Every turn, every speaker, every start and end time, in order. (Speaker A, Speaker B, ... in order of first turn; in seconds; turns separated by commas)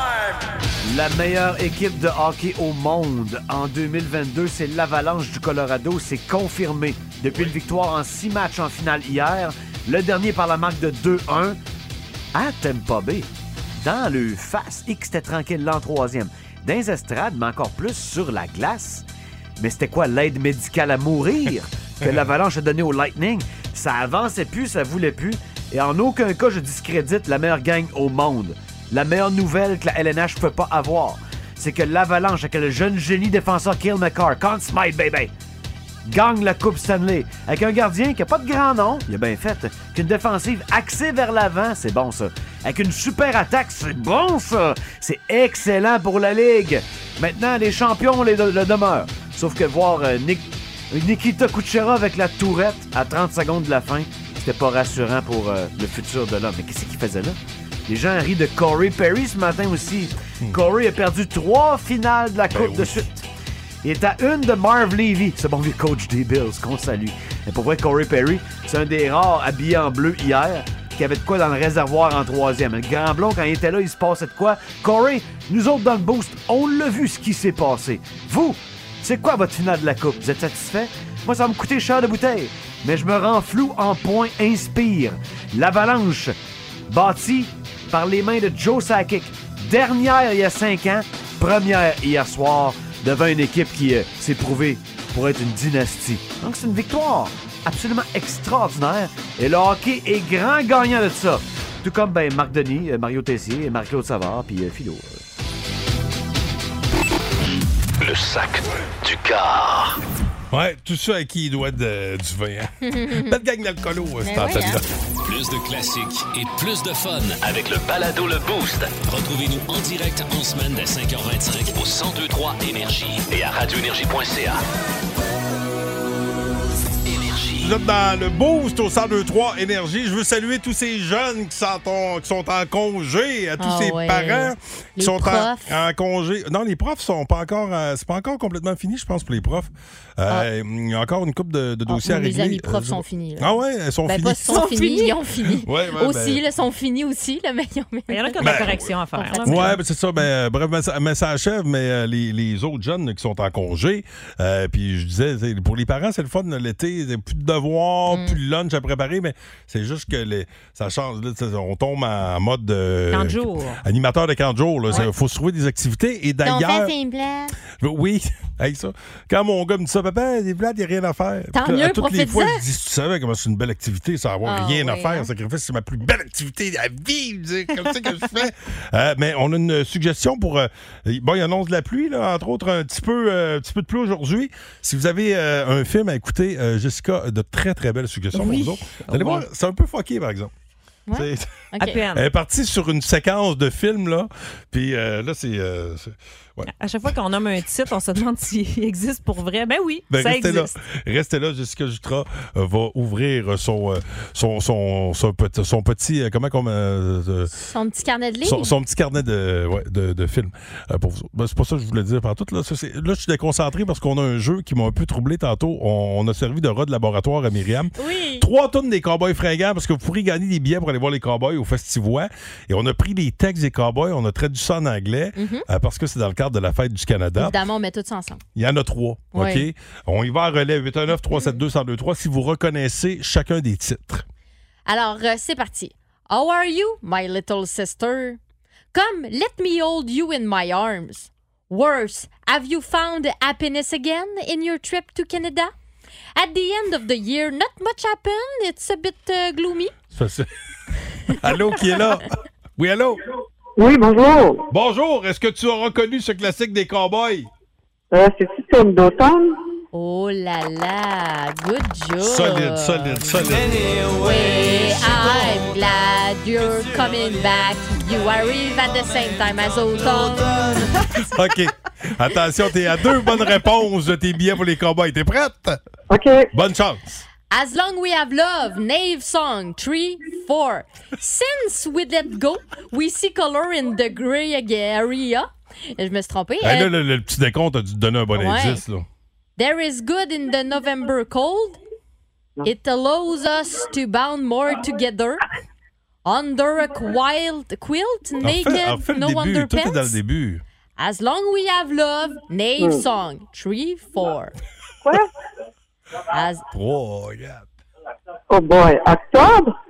Speaker A: 0.8-11.6, Speaker A: 12.3-13.3, Speaker A: 13.8-19.1, Speaker A: 19.6-35.3, Speaker A: 36.0-63.2, Speaker B: 62.5-63.0, Speaker A: 63.8-86.3, Speaker A: 86.9-105.2, Speaker C: 108.0-110.0, Speaker B: 110.5-114.8, Speaker D: 112.8-113.4, Speaker D: 114.2-114.8, Speaker C: 115.2-124.6, Speaker C: 127.1-127.7, Speaker B: 127.6-144.9, Speaker D: 133.6-135.7, Speaker D: 141.9-143.5, Speaker D: 144.1-149.8, Speaker E: 144.5-145.1, Speaker B: 145.6-146.4, Speaker E: 148.1-149.8, Speaker B: 148.4-166.9, Speaker D: 158.1-158.3, Speaker E: 163.1-163.8, Speaker D: 166.4-167.6, Speaker B: 167.8-190.5, Speaker D: 171.5-172.6, Speaker D: 174.4-175.3, Speaker E: 188.3-189.4, Speaker D: 191.1-192.0, Speaker B: 191.1-196.7, Speaker E: 191.8-192.2, Speaker E: 196.7-200.7, Speaker B: 200.1-207.5, Speaker D: 207.5-208.7, Speaker B: 208.4-227.6, Speaker D: 217.9-218.4, Speaker D: 225.3-225.6, Speaker D: 227.4-228.4, Speaker B: 228.5-234.2, Speaker D: 229.3-229.7, Speaker D: 234.8-238.4, Speaker D: 238.9-245.7, Speaker D: 246.3-249.9, Speaker B: 250.1-250.5, Speaker B: 251.3-253.2, Speaker F: 253.8-254.6, Speaker B: 254.7-257.5, Speaker F: 258.1-259.6, Speaker D: 259.9-263.4, Speaker B: 262.2-264.0, Speaker D: 264.1-270.9, Speaker B: 271.2-275.8, Speaker F: 276.1-276.5, Speaker B: 276.5-277.2, Speaker D: 277.5-286.9, Speaker B: 286.6-289.1, Speaker D: 288.3-288.8, Speaker D: 289.6-291.8, Speaker D: 292.6-295.4, Speaker D: 296.2-300.2, Speaker B: 298.4-300.6, Speaker D: 301.0-304.5, Speaker F: 305.0-305.3, Speaker D: 306.3-306.6, Speaker B: 306.7-307.7, Speaker F: 308.5-309.7